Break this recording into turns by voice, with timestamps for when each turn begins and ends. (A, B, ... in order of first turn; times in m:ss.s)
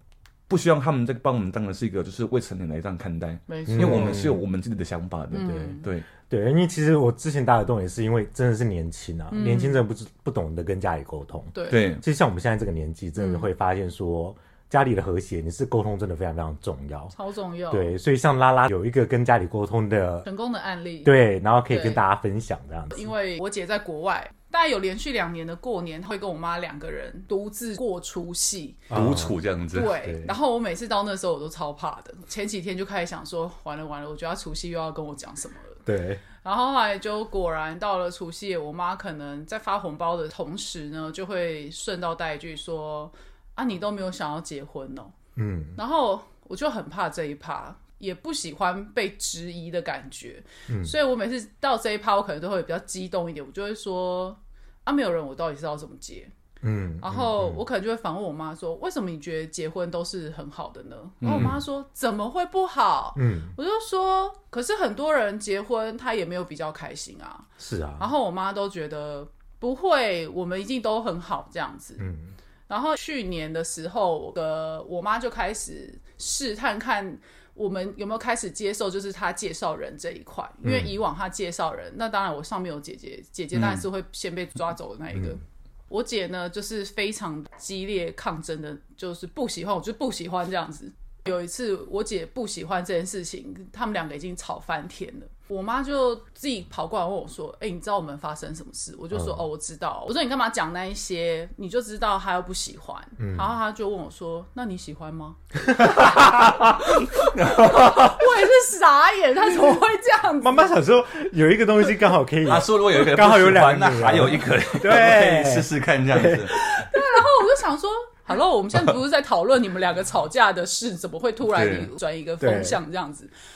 0:00.5-0:06.1 A
0:03.5-0:04.3 B
0:03.7-0:04.4 C
0:05.3-0:05.9 B
0:05.4-0:17.1 C
0:09.3-0:09.8 B
0:11.5-0:11.9 B
0:11.7-0:12.0 A
0:13.2-0:13.5 B
0:17.1-0:17.9 B
0:17.7-0:20.3 C
0:20.2-0:21.2 B
0:21.0-0:23.1 C
0:21.7-0:22.0 B
0:22.9-0:28.9 B
0:28.9-0:29.4 C
0:28.9-0:30.0 A
0:29.7-0:35.8 B
0:30.0-0:30.3 C
0:35.9-0:36.2 C
0:36.4-0:45.2 B
0:45.4-0:45.8 C
0:45.8-0:56.3 B
0:50.7-0:50.9 C
0:56.6-0:57.6 C
0:57.0-1:12.1 B
1:01.2-1:01.6 A
1:01.3-1:01.6 C
1:03.2-1:03.6 C
1:07.6-1:08.1 C
1:12.0-1:12.3 C
1:12.7-1:50.7 B
1:20.6-1:20.9 C
1:23.6-1:23.8 A
1:39.1-1:39.4 C
1:43.2-1:43.6 C
1:45.7-1:46.7 C
1:45.8-1:48.2 A
1:50.4-1:56.5 C
1:52.4-1:56.6 A
1:56.5-2:03.3 B
2:01.5-2:01.9 A
2:02.4-2:02.8 C